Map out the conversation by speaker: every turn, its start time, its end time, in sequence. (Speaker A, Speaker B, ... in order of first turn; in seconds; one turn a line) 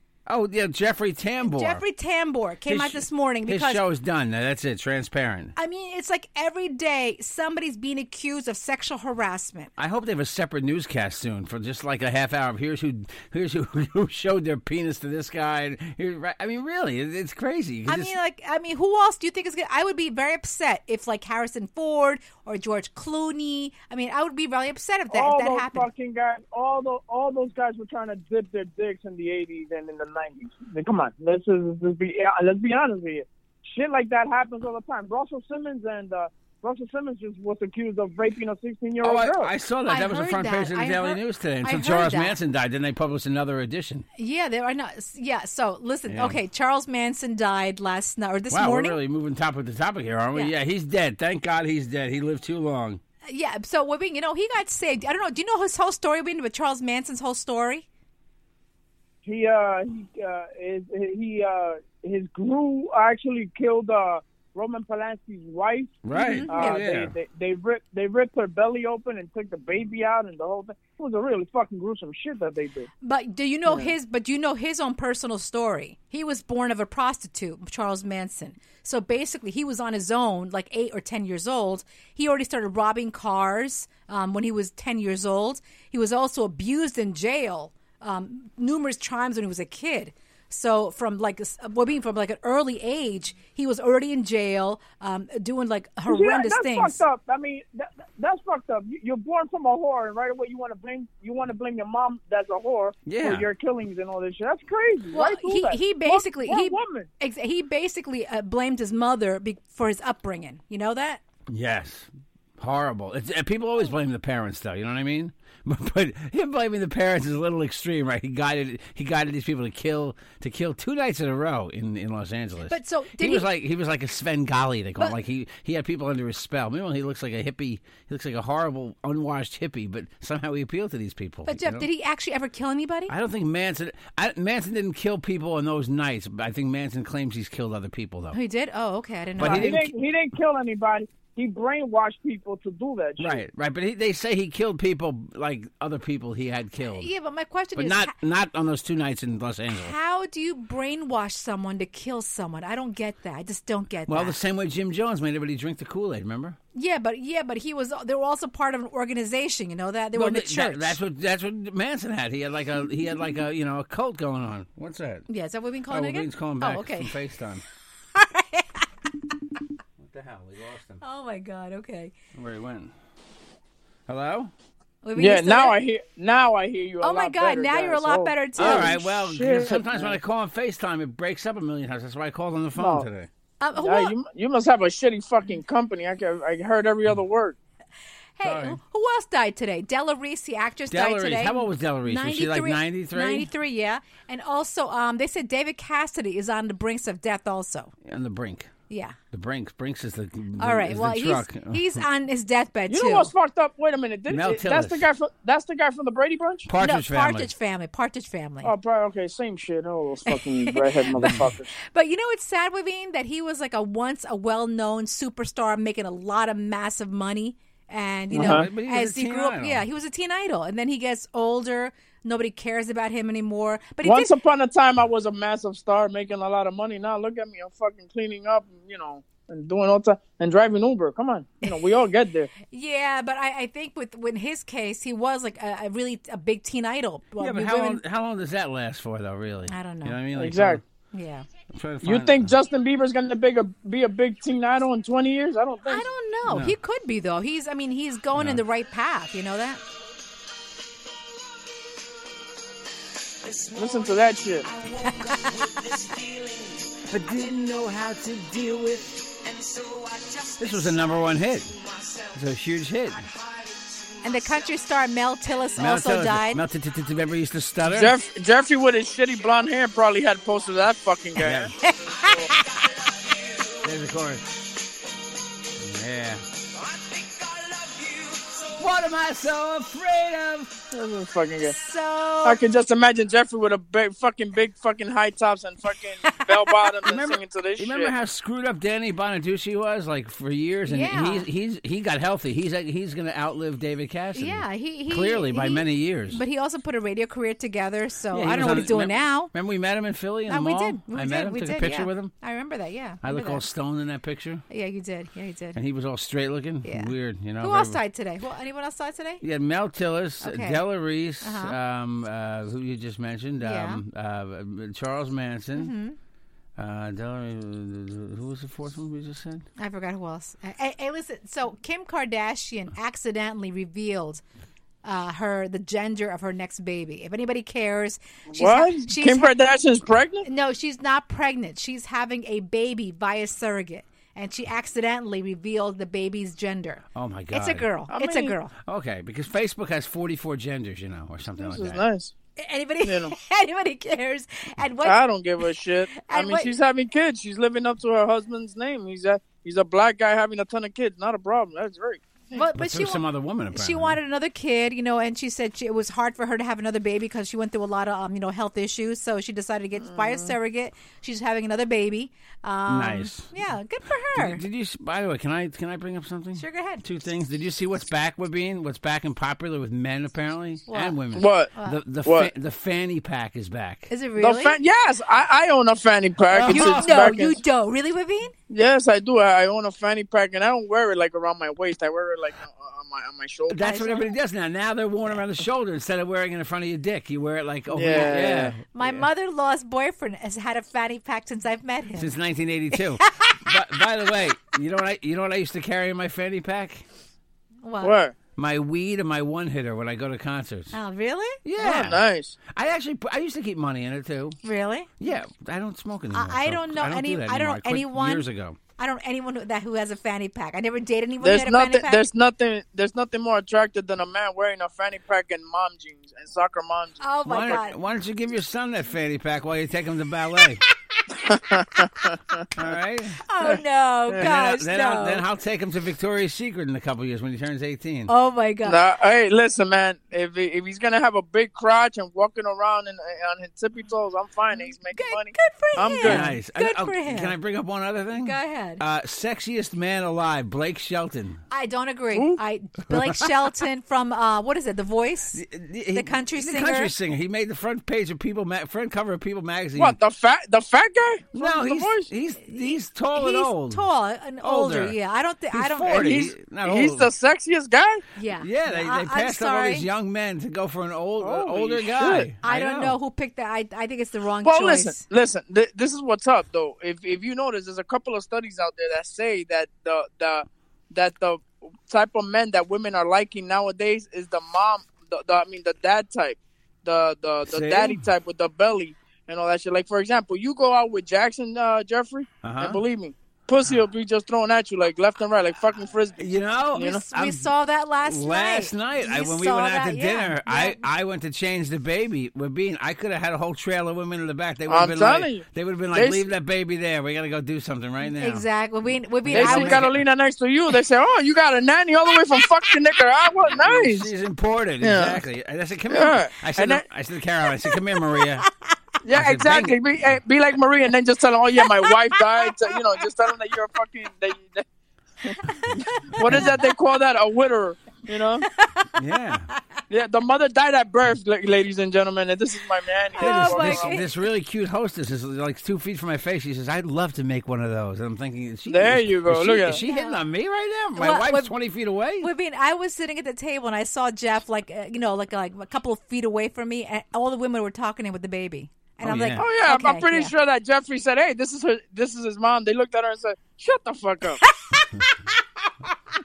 Speaker A: 0.3-1.8
Speaker B: 1.4-3.8
Speaker A: 2.7-5.5
Speaker B: 5.6-9.7
Speaker A: 9.8-18.1
Speaker B: 17.9-25.9
Speaker C: 25.1-39.5
Speaker A: 39.0-44.0
Speaker B: 39.9-42.4
Speaker B: 44.2-49.0
Speaker A: 46.1-46.4
Speaker A: 48.5-53.0
Speaker B: 53.3-57.8
Speaker C: 59.2-72.9
Speaker A: 66.0-67.1
Speaker B: 66.1-66.8
Speaker B: 73.0-97.0
Speaker C: 73.7-73.9
Speaker C: 96.1-107.1
Speaker A: 103.1-103.5
Speaker B: 105.1-111.2
Speaker A: 111.5-112.1
Speaker A: 112.6-131.9
Speaker B: 122.7-123.5
Speaker B: 131.4-133.1
Speaker A: 133.1-138.4
Speaker B: 138.3-139.9
Speaker A: 139.4-139.8
Speaker C: 139.4-143.4
Speaker A: 143.2-147.1
Speaker B: 146.9-148.1
Speaker A: 147.8-149.9
Speaker B: 149.7-154.4
Speaker A: 154.1-156.6
Speaker B: 156.7-161.0
Speaker A: 160.1-165.3
Speaker B: 165.3-167.1
Speaker A: 165.9-167.6
Speaker B: 168.1-168.9
Speaker A: 170.0-171.0
Speaker B: 171.0-172.1
Speaker A: 172.3-172.9
Speaker A: 174.1-174.5
Speaker B: 175.0-175.8
Speaker C: 175.2-180.2
Speaker B: 177.0-178.9
Speaker A: 178.6-183.3
Speaker C: 182.8-183.1
Speaker B: 183.6-184.1
Speaker C: 183.8-187.6
Speaker B: 188.4-197.9
Speaker A: 188.4-188.8
Speaker A: 190.9-193.5
Speaker A: 198.0-198.7
Speaker B: 198.9-199.2
Speaker A: 199.3-202.0
Speaker B: 200.6-203.3
Speaker C: 202.9-206.7
Speaker A: 204.3-205.1
Speaker A: 206.7-207.5
Speaker B: 206.8-208.7
Speaker C: 208.6-211.7
Speaker B: 210.3-224.3
Speaker A: 211.2-211.5
Speaker C: 218.3-218.7
Speaker A: 218.3-219.8
Speaker C: 224.0-232.5
Speaker B: 232.7-238.0
Speaker A: 237.4-240.8
Speaker B: 239.7-240.2
Speaker C: 240.3-240.8
Speaker B: 241.1-241.4
Speaker A: 241.7-242.5
Speaker C: 242.0-246.1
Speaker B: 245.9-249.8
Speaker A: 246.4-246.7
Speaker A: 248.3-248.6
Speaker C: 253.7-254.7
Speaker B: 255.0-255.7
Speaker A: 257.1-259.4
Speaker A: 260.6-261.8
Speaker A: 262.3-263.3
Speaker B: 264.2-266.6
Speaker A: 265.8-268.2
Speaker C: 267.8-271.7
Speaker A: 271.4-271.7
Speaker B: 271.8-272.6
Speaker A: 273.8-274.5
Speaker A: 275.8-276.4
Speaker A: 278.8-280.7
Speaker C: 280.9-281.8
Speaker B: 281.7-282.6
Speaker C: 282.4-288.1
Speaker A: 287.0-296.4
Speaker B: 290.9-291.4
Speaker B: 294.3-299.5
Speaker A: 298.3-302.3
Speaker B: 300.5-303.6
Speaker A: 303.2-304.6
Speaker B: 304.7-305.8
Speaker A: 305.7-308.0
Speaker B: 306.8-309.4
Speaker A: 309.4-315.9
Speaker B: 310.4-310.8
Speaker B: 311.4-311.8
Speaker B: 313.6-314.0
Speaker B: 315.7-316.1
Speaker A: 316.8-319.6
Speaker B: 319.8-324.4
Speaker B: 325.0-329.5
Speaker C: 328.5-330.4
Speaker B: 330.4-338.7
Speaker A: 337.1-337.9
Speaker C: 338.1-338.5
Speaker A: 338.8-342.0
Speaker C: 341.6-342.3
Speaker B: 342.6-345.2
Speaker C: 343.0-343.3
Speaker C: 345.0-352.6
Speaker B: 346.2-346.7
Speaker B: 352.5-364.6
Speaker A: 352.7-354.2
Speaker C: 360.0-360.5
Speaker A: 362.9-363.5
Speaker A: 364.3-374.1
Speaker B: 366.6-367.0
Speaker B: 370.9-371.2
Speaker C: 371.4-371.7
Speaker C: 372.2-372.5
Speaker B: 374.1-374.8
Speaker C: 374.4-377.6
Speaker A: 376.5-377.3
Speaker B: 376.6-378.5
Speaker C: 378.7-383.8
Speaker A: 383.7-389.3
Speaker B: 383.8-384.3
Speaker C: 387.9-388.7
Speaker B: 388.9-392.3
Speaker A: 392.2-397.0
Speaker B: 393.0-393.7
Speaker B: 397.8-398.1
Speaker C: 398.0-398.3
Speaker A: 398.6-400.9
Speaker B: 400.9-401.6
Speaker A: 401.6-404.6
Speaker C: 401.8-402.6
Speaker B: 404.6-405.1
Speaker A: 405.2-408.8
Speaker B: 406.3-408.4
Speaker B: 409.0-412.2
Speaker C: 411.4-417.8
Speaker B: 417.2-417.9
Speaker A: 417.4-420.8
Speaker C: 421.3-422.7
Speaker A: 422.7-423.4
Speaker B: 423.4-425.4
Speaker A: 424.4-428.3
Speaker B: 428.3-429.0
Speaker C: 428.9-436.5
Speaker B: 434.8-437.5
Speaker A: 436.2-441.6
Speaker B: 438.4-439.0
Speaker B: 441.7-445.6
Speaker C: 442.3-442.6
Speaker A: 443.1-443.3
Speaker A: 445.5-450.1
Speaker B: 446.1-447.1
Speaker C: 449.9-452.3
Speaker A: 451.5-454.0
Speaker B: 452.6-456.3
Speaker A: 454.6-455.1
Speaker A: 455.7-457.3
Speaker C: 456.1-458.2
Speaker B: 458.4-460.1
Speaker A: 458.6-463.1
Speaker C: 461.4-462.5
Speaker B: 462.6-465.2
Speaker C: 464.6-487.2
Speaker A: 477.7-478.2
Speaker A: 482.6-483.0
Speaker A: 486.4-487.7
Speaker B: 486.9-491.0
Speaker A: 488.2-498.6
Speaker C: 494.9-496.5
Speaker B: 498.4-500.1
Speaker A: 499.4-500.2
Speaker C: 499.5-504.3
Speaker A: 503.7-508.7
Speaker C: 505.0-505.4
Speaker C: 506.1-507.0
Speaker C: 509.2-514.8
Speaker A: 509.3-510.0
Speaker B: 511.8-512.9
Speaker B: 515.6-516.7
Speaker C: 516.3-518.7
Speaker B: 518.7-519.2
Speaker A: 519.2-519.7
Speaker C: 520.1-524.2
Speaker B: 523.4-524.3
Speaker A: 523.4-532.5
Speaker C: 528.9-530.0
Speaker B: 529.9-530.4
Speaker B: 531.1-531.7
Speaker B: 532.4-540.5
Speaker A: 539.2-539.6
Speaker C: 539.6-544.6
Speaker B: 544.6-545.5